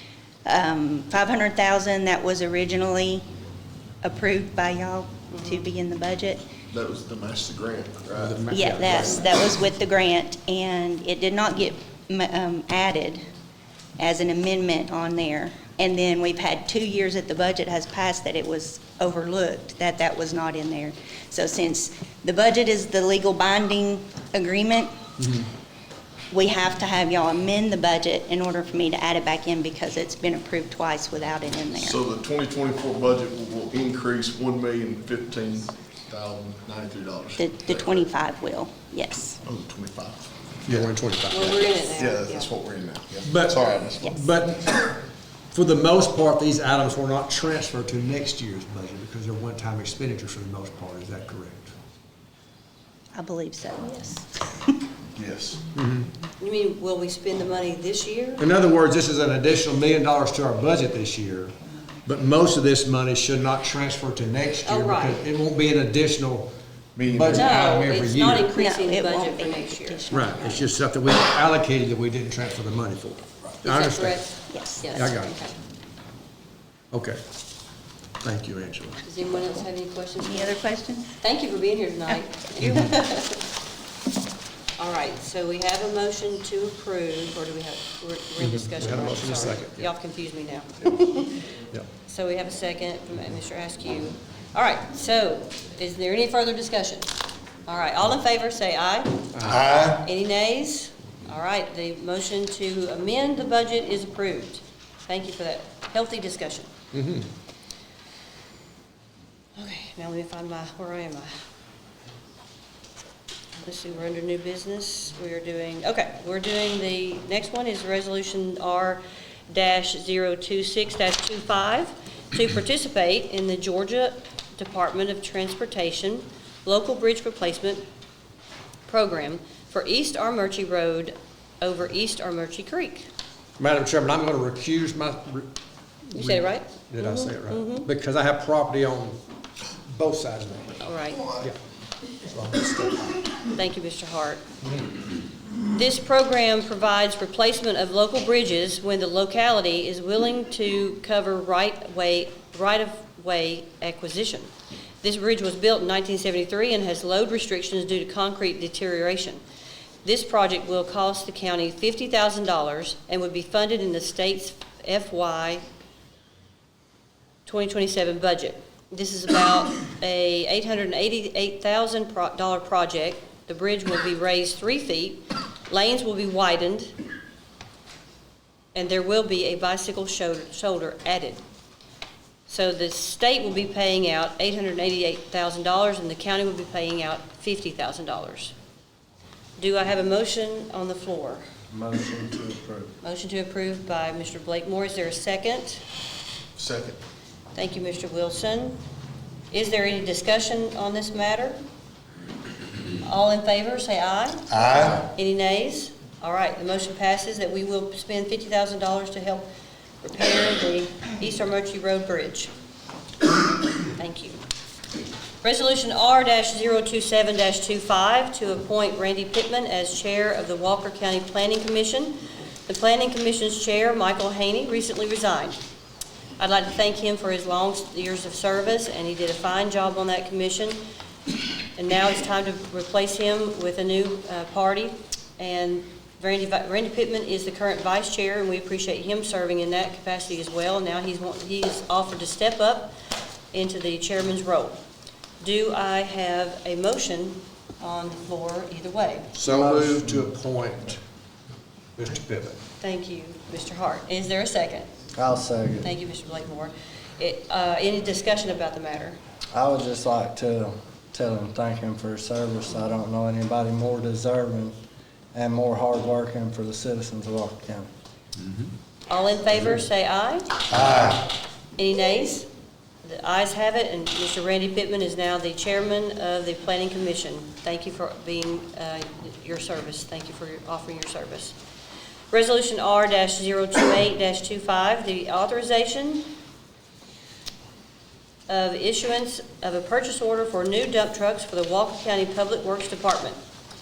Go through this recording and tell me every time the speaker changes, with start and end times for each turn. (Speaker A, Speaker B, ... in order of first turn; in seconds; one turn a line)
Speaker A: 0.5-3.3
Speaker A: 4.0-6.4
Speaker B: 5.3-5.7
Speaker C: 6.7-8.4
Speaker D: 8.2-9.2
Speaker A: 8.5-13.2
Speaker A: 14.0-24.9
Speaker A: 26.3-32.0
Speaker C: 31.8-38.1
Speaker A: 37.4-39.4
Speaker C: 39.4-44.2
Speaker D: 40.6-41.5
Speaker B: 41.3-42.5
Speaker D: 43.2-45.0
Speaker D: 45.5-51.7
Speaker A: 53.1-54.7
Speaker C: 55.2-55.6
Speaker D: 55.7-56.1
Speaker B: 56.4-58.5
Speaker D: 58.4-61.5
Speaker D: 62.0-66.5
Speaker B: 64.6-65.2
Speaker C: 67.0-67.5
Speaker D: 67.0-68.5
Speaker B: 67.3-70.0
Speaker A: 68.5-70.7
Speaker D: 70.1-74.2
Speaker B: 73.6-75.6
Speaker A: 74.5-75.0
Speaker D: 74.9-75.4
Speaker D: 76.9-77.2
Speaker D: 78.2-79.0
Speaker B: 79.0-80.6
Speaker A: 80.2-81.2
Speaker B: 81.2-83.5
Speaker D: 82.6-83.0
Speaker B: 84.8-91.3
Speaker D: 88.4-89.9
Speaker B: 92.0-97.1
Speaker B: 97.7-106.7
Speaker D: 99.3-100.0
Speaker D: 106.9-107.3
Speaker B: 109.6-111.3
Speaker B: 113.6-127.8
Speaker B: 128.9-133.1
Speaker D: 133.6-135.5
Speaker D: 136.1-139.2
Speaker B: 136.2-137.9
Speaker D: 139.9-141.6
Speaker B: 140.8-141.3
Speaker D: 142.2-143.2
Speaker B: 143.5-144.4
Speaker B: 145.7-154.5
Speaker B: 155.0-159.4
Speaker B: 160.0-165.6
Speaker B: 167.5-176.9
Speaker B: 178.8-181.4
Speaker B: 182.5-188.5
Speaker B: 189.6-191.4
Speaker E: 191.7-192.9
Speaker B: 193.0-195.8
Speaker C: 196.6-197.0
Speaker B: 197.6-198.8
Speaker B: 199.5-201.6
Speaker B: 203.0-209.5
Speaker C: 204.5-205.1
Speaker B: 210.0-212.5
Speaker B: 214.0-214.4
Speaker B: 215.4-225.6
Speaker B: 226.4-230.8
Speaker B: 231.8-242.9
Speaker B: 243.5-244.8
Speaker B: 245.4-249.3
Speaker D: 249.3-251.0
Speaker E: 249.5-250.3
Speaker D: 252.0-252.6
Speaker B: 252.8-254.9
Speaker E: 255.2-255.9
Speaker B: 255.8-259.2
Speaker E: 259.5-264.8
Speaker E: 265.3-267.9
Speaker B: 269.1-270.6
Speaker D: 270.7-271.2
Speaker B: 271.8-272.5
Speaker B: 273.0-281.6
Speaker B: 282.3-286.3
Speaker B: 288.5-293.4